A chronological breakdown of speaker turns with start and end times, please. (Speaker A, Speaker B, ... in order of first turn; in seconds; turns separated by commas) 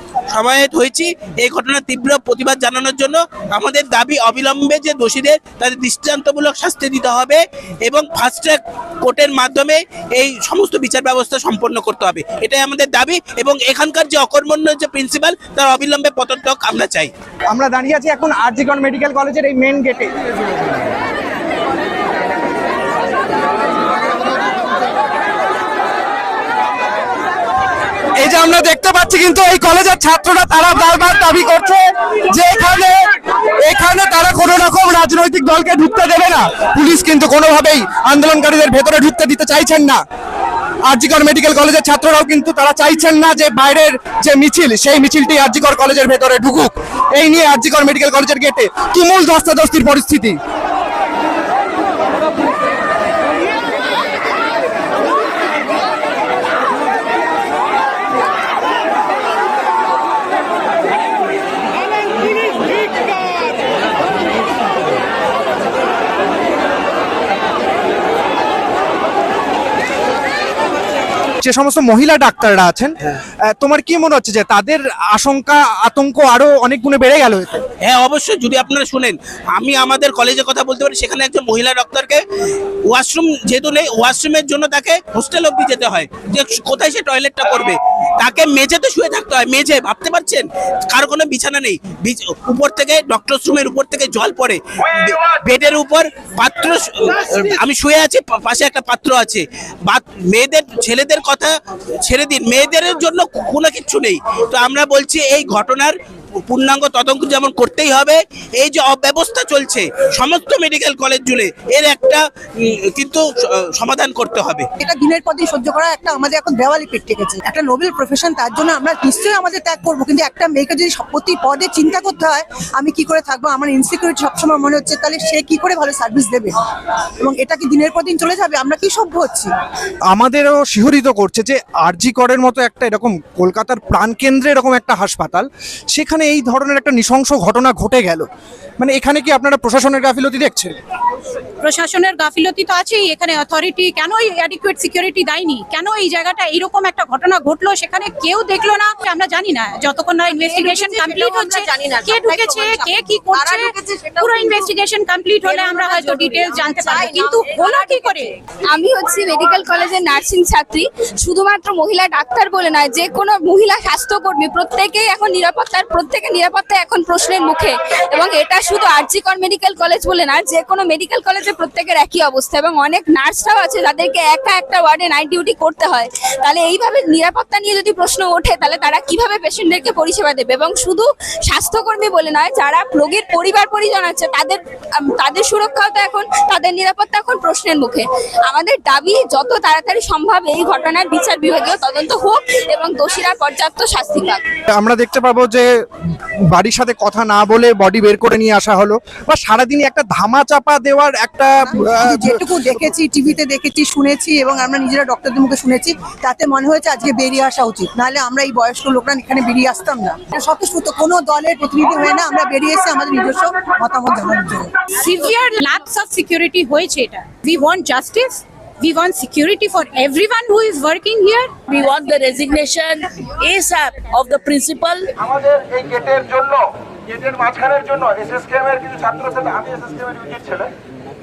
Speaker A: 0.3-17.1, Speaker B: 17.5-20.1, Speaker B: 28.2-33.0, Speaker B: 33.6-40.0, Speaker B: 40.9-50.4, Speaker B: 71.5-72.9, Speaker B: 73.5-77.6, Speaker A: 77.8-82.2, Speaker A: 82.9-101.5, Speaker A: 102.1-106.0, Speaker A: 106.5-113.2, Speaker A: 113.8-114.6, Speaker C: 114.8-126.6, Speaker C: 127.2-129.5, Speaker B: 130.1-138.2, Speaker B: 138.8-140.8, Speaker D: 141.6-158.3, Speaker C: 150.3-154.7, Speaker C: 155.4-158.2, Speaker E: 158.7-194.4, Speaker B: 194.7-195.7, Speaker B: 196.5-202.8, Speaker C: 201.6-214.7, Speaker D: 214.9-221.5, Speaker F: 221.7-225.1, Speaker G: 225.2-230.7